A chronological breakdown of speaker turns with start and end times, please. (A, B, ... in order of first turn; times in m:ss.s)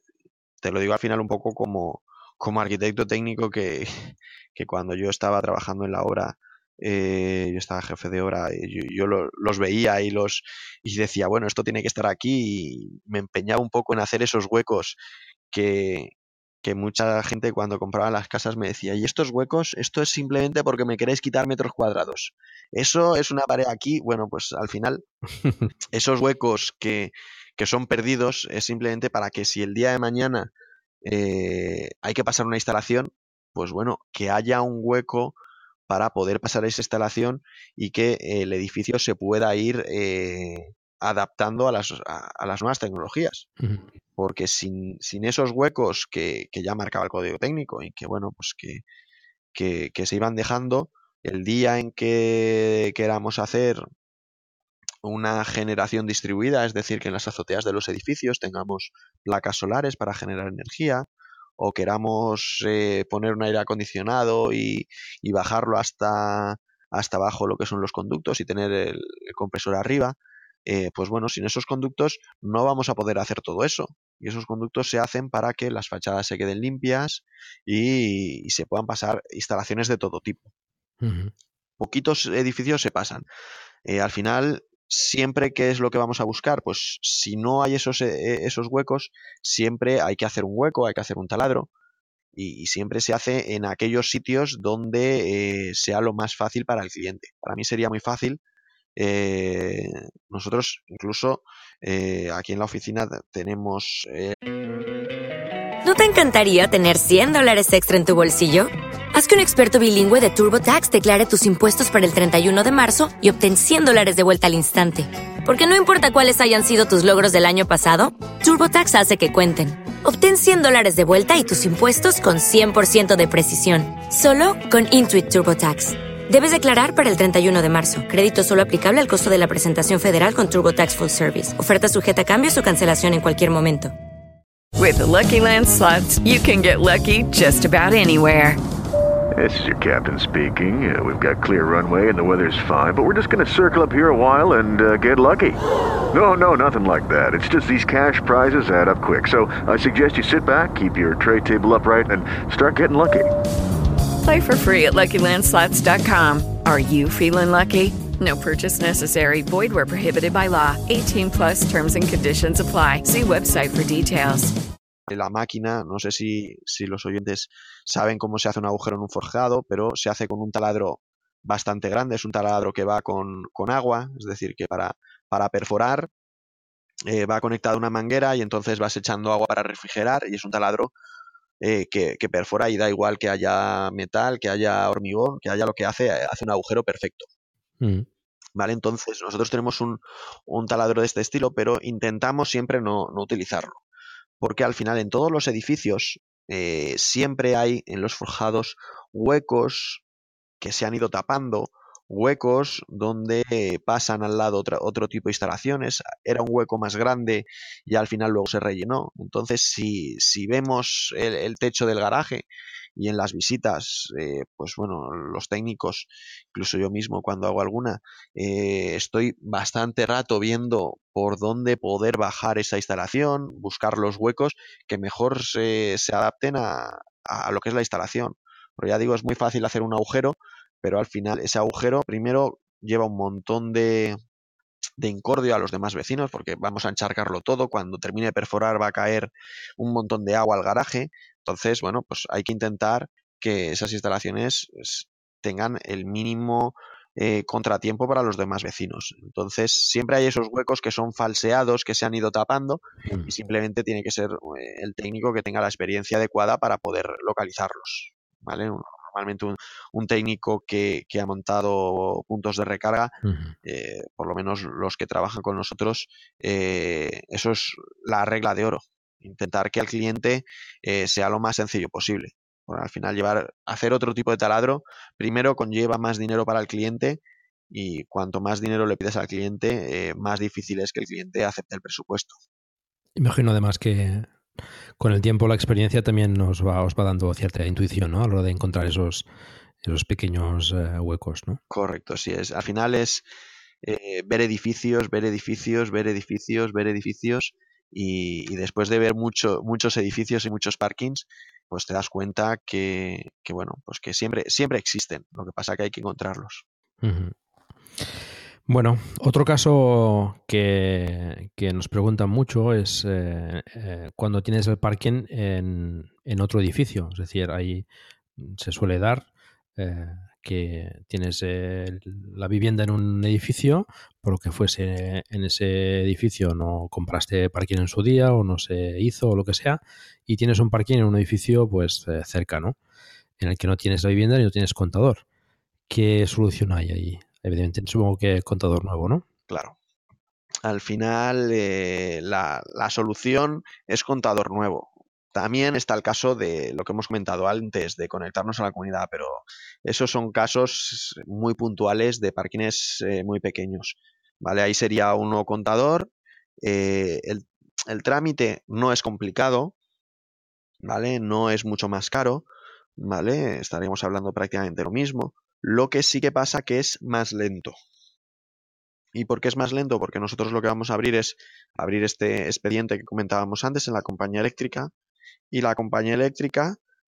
0:00.6-0:15.0 A
0:15.5-0:16.1 A
0:16.6-0:25.0 A
0:25.9-0:30.5 A
0:31.0-0:35.4 A
0:35.9-0:43.5 A
0:43.6-0:43.8 B
0:44.2-0:48.8 A
0:49.5-0:53.8 A
0:55.0-1:01.0 A
1:01.6-1:20.5 A
1:21.0-1:21.3 B
1:21.8-1:23.2 A
1:23.8-1:31.7 A
1:32.3-1:38.4 A
1:39.0-1:44.4 A
1:45.8-2:13.9 C
2:14.8-2:18.6 D
2:19.4-2:25.6 E
2:26.1-2:33.3 E
2:34.2-2:44.5 D
2:45.1-2:56.1 A
2:57.1-3:00.9 A
3:01.6-3:07.3 A
3:07.8-3:08.1 B
3:08.6-3:13.8 A
3:14.4-3:20.0 A
3:20.6-3:54.2 A
3:55.0-4:42.4 A
4:13.1-4:13.3 B
4:23.2-4:23.6 B
4:43.2-4:44.3 B
4:45.0-4:49.2 B
4:49.8-4:51.6 B
4:51.7-4:53.3 A
4:53.8-5:06.6 A
5:07.0-5:07.3 B
5:08.7-5:17.8 B
5:18.4-5:32.8 B
5:33.4-5:35.2 B
5:35.9-5:39.2 B
5:39.5-5:39.8 A
5:40.6-5:56.1 A
5:56.6-5:59.7 A
6:00.8-6:07.8 A
6:09.1-6:14.9 A
6:15.5-6:16.8 A